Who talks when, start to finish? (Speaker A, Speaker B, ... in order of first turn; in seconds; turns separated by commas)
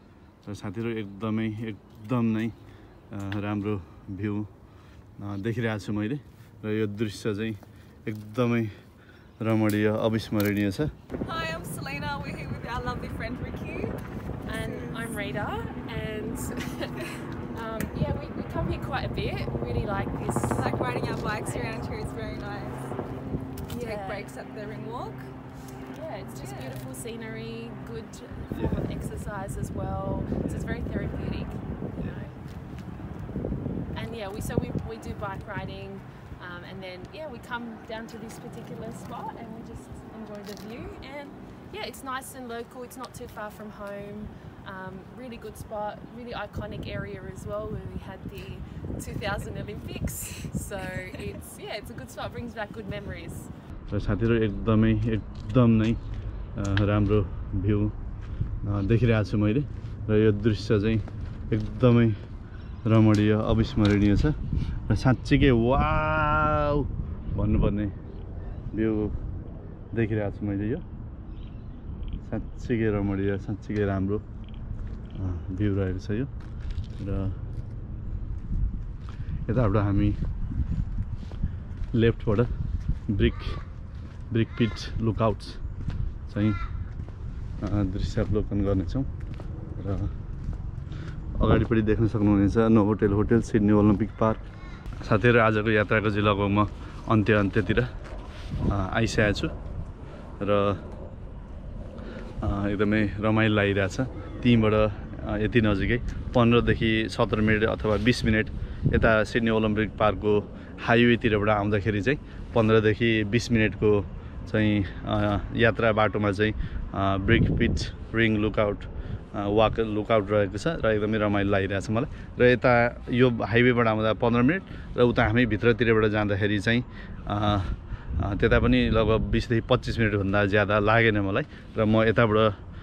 Speaker A: 0.5-2.5, Speaker A: 3.1-4.5, Speaker A: 5.2-8.7, Speaker A: 9.4-10.9, Speaker B: 11.2-13.9, Speaker C: 14.5-20.7, Speaker B: 14.5-15.2, Speaker B: 20.5-22.9, Speaker C: 21.4-21.8, Speaker C: 23.7-24.3, Speaker B: 23.7-25.3, Speaker C: 25.9-32.3, Speaker B: 26.3-26.9, Speaker C: 33.9-53.5, Speaker A: 53.9-56.0, Speaker A: 56.5-57.9, Speaker A: 58.6-62.2, Speaker A: 62.8-64.4, Speaker A: 64.9-67.9, Speaker A: 68.7-69.2, Speaker A: 69.9-70.8, Speaker A: 72.3-74.2, Speaker A: 75.1-76.3, Speaker A: 77.0-77.3, Speaker A: 79.5-80.2, Speaker A: 81.9-82.5, Speaker A: 83.1-83.6, Speaker A: 84.3-85.6, Speaker A: 86.3-86.6, Speaker A: 87.6-89.1, Speaker A: 89.8-90.1, Speaker A: 91.4-94.4, Speaker A: 95.0-97.9, Speaker A: 98.7-99.5, Speaker A: 100.4-100.8, Speaker A: 102.4-132.6